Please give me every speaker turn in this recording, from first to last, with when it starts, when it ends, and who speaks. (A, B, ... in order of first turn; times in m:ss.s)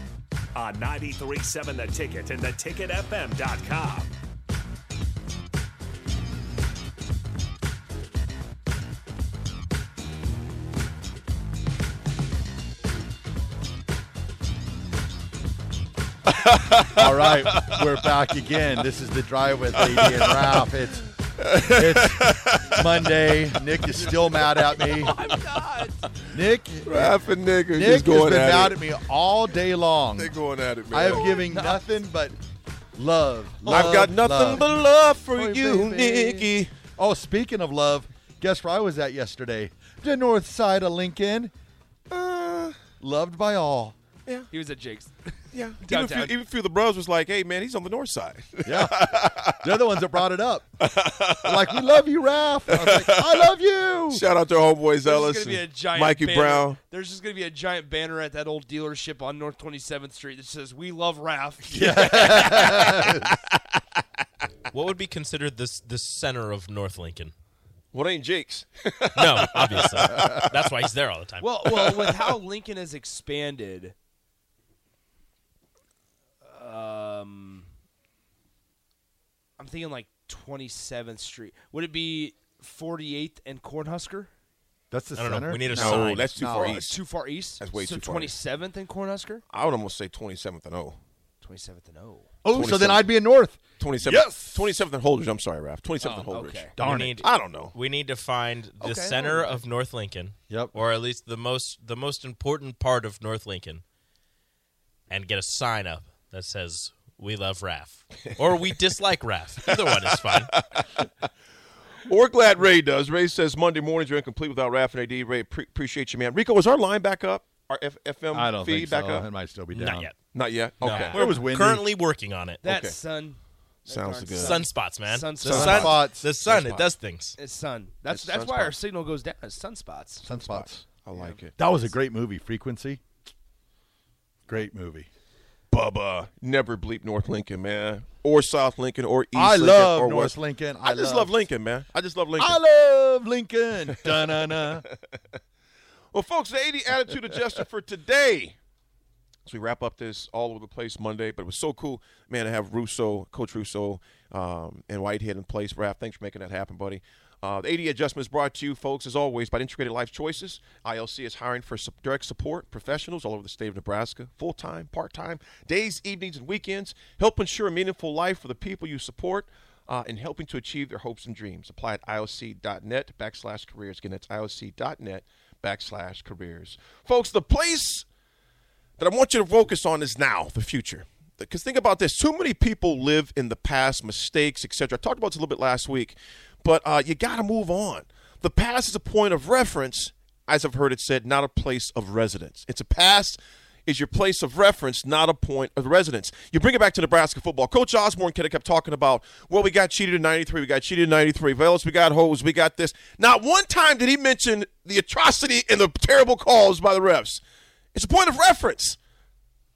0:00.5-0:04.1 A
0:16.4-0:17.8 B
0:16.9-0:21.1 C
0:19.8-0:20.6 B
0:21.4-0:22.9 B
0:21.6-0:25.2 C
0:24.0-0:25.0 B
0:24.8-0:26.0 D
0:26.3-0:27.2 C
0:26.9-0:28.8 B
0:27.7-0:30.4 C
0:30.2-0:31.4 B
0:30.9-0:32.4 C
0:31.1-0:32.0 D
0:33.0-0:34.7 C
0:33.7-0:36.7 B
0:35.3-0:41.5 C
0:42.1-0:42.8 B
0:43.0-0:44.0 C
0:44.5-0:46.3 D
0:45.5-0:49.7 B
0:48.7-0:50.8 C
0:50.8-0:51.8 B
0:51.4-0:54.2 C
0:52.7-0:53.5 B
0:54.1-0:56.8 B
0:55.0-1:03.1 D
1:01.7-1:03.3 C
1:04.7-1:07.3 E
1:07.9-1:10.5 B
1:09.1-1:11.5 E
1:11.4-1:14.0 D
1:11.7-1:12.3 B
1:16.4-1:17.7 D
1:19.6-1:24.3 D
1:24.9-1:26.9 C
1:25.2-1:26.3 E
1:25.7-1:26.9 B
1:26.5-1:29.4 D
1:27.6-1:28.4 B
1:29.5-1:31.0 B
1:31.4-1:32.3 D
1:32.4-1:34.7 C
1:32.5-1:33.1 B
1:33.8-1:36.7 B
1:36.0-1:37.3 C
1:36.2-1:36.8 D
1:36.8-1:43.8 E
1:37.2-1:37.8 B
1:38.8-1:39.6 D
1:40.5-1:40.8 C
1:45.1-1:50.5 E
1:49.6-1:51.1 B
1:52.0-1:59.3 B
1:58.3-2:00.1 C
1:59.7-2:00.1 E
2:00.3-2:01.4 B
2:00.8-2:02.6 E
2:01.1-2:01.9 C
2:02.6-2:06.0 D
2:02.7-2:03.0 B
2:03.9-2:04.6 B
2:04.4-2:07.4 E
2:05.4-2:06.9 B
2:05.4-2:06.4 C
2:07.4-2:10.3 D
2:08.1-2:08.7 B
2:10.2-2:10.8 C
2:10.3-2:11.5 B
2:11.6-2:13.0 C
2:14.5-2:15.1 C
2:15.7-2:22.6 B
2:19.3-2:21.5 C
2:22.4-2:24.8 C
2:25.1-2:25.4 B
2:26.1-2:28.6 B
2:29.4-2:58.0 B
2:59.0-3:27.4 B
3:27.9-3:29.0 B